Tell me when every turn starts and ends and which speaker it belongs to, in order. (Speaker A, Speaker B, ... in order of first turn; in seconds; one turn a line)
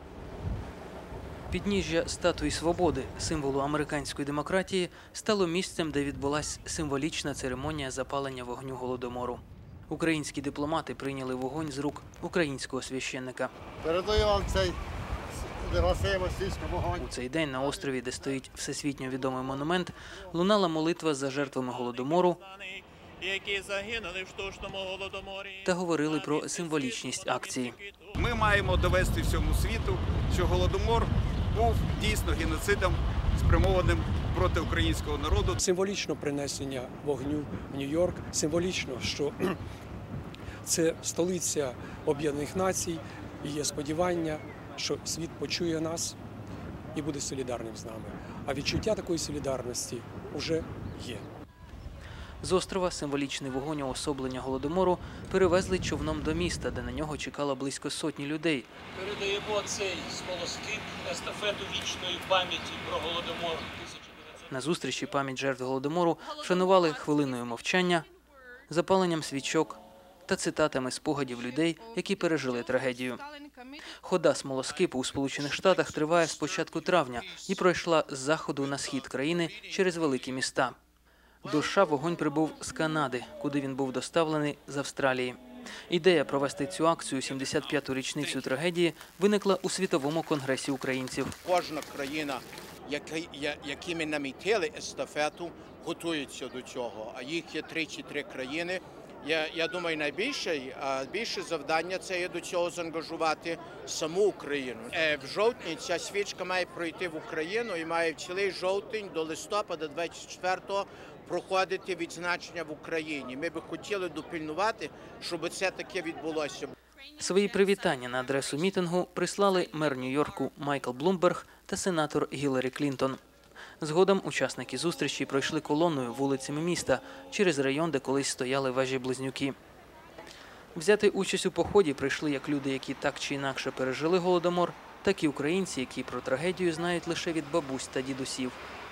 Speaker A: 1.5-13.5
Speaker B: 13.8-14.8
Speaker B: 15.5-17.0
Speaker A: 16.9-22.4
Speaker C: 21.5-28.2
Speaker A: 25.6-27.8
Speaker D: 28.2-35.6
Speaker E: 35.6-39.6
Speaker E: 40.6-46.2
Speaker E: 46.9-51.3
Speaker A: 52.4-58.7
Speaker F: 59.0-64.4
Speaker A: 64.5-68.1
Speaker A: 68.7-73.2
Speaker A: 74.0-80.8
Speaker A: 81.4-85.4
Speaker A: 85.9-91.3
Speaker G: 91.4-116.7
Speaker A: 117.2-123.2
Speaker A: 123.8-129.6
Speaker A: 130.8-138.6